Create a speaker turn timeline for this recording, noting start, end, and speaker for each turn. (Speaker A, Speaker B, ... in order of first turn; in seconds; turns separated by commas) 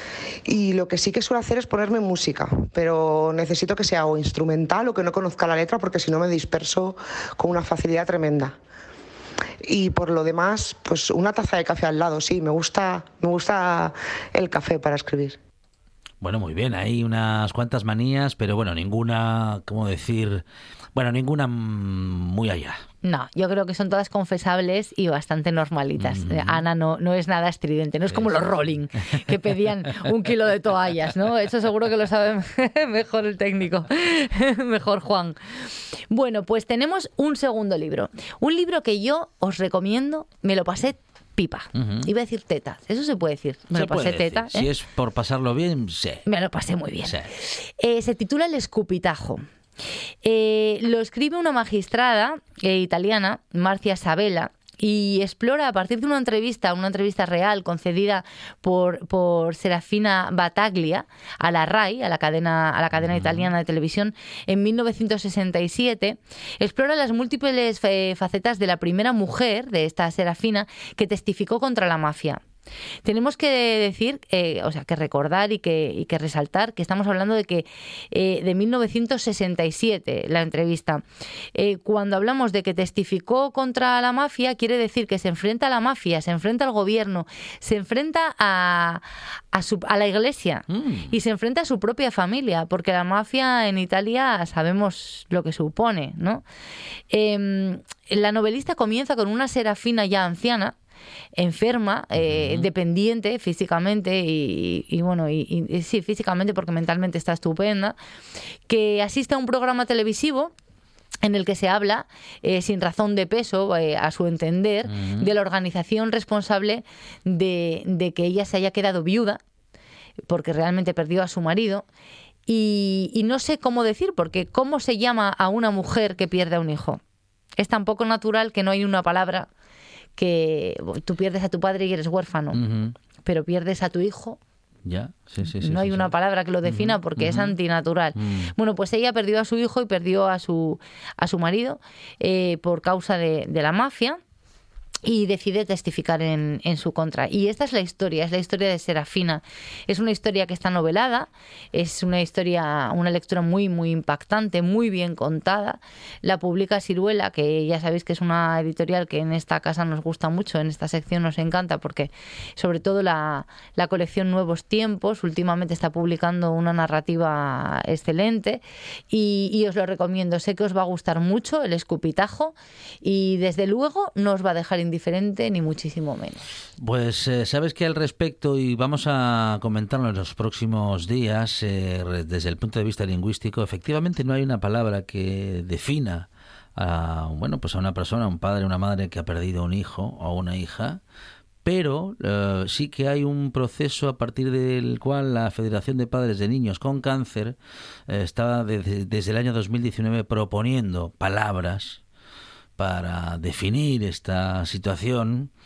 Speaker A: 0.5-8.6, Speaker A: 9.6-15.4, Speaker B: 16.2-20.4, Speaker B: 20.9-22.8, Speaker C: 23.0-35.4, Speaker B: 26.0-26.6, Speaker B: 28.1-28.5, Speaker C: 36.1-44.7, Speaker B: 41.7-42.1, Speaker B: 43.7-46.2, Speaker C: 46.3-49.4, Speaker B: 47.0-47.3, Speaker C: 50.2-72.4, Speaker B: 62.9-63.5, Speaker C: 73.0-81.0, Speaker C: 81.5-96.4, Speaker B: 90.7-91.1, Speaker C: 97.1-100.7, Speaker C: 101.4-108.0, Speaker B: 102.2-102.7, Speaker C: 108.7-110.5, Speaker C: 111.2-119.4, Speaker B: 114.9-115.3, Speaker C: 120.3-121.8, Speaker C: 122.5-127.0, Speaker C: 127.6-129.5, Speaker C: 130.2-132.6, Speaker B: 132.5-132.9, Speaker C: 133.2-134.4, Speaker B: 134.8-136.1, Speaker C: 135.6-144.2, Speaker B: 136.6-137.6, Speaker B: 138.2-138.5, Speaker C: 145.0-176.4, Speaker B: 176.8-191.0, Speaker B: 191.6-197.6, Speaker B: 198.1-202.0, Speaker B: 202.8-205.5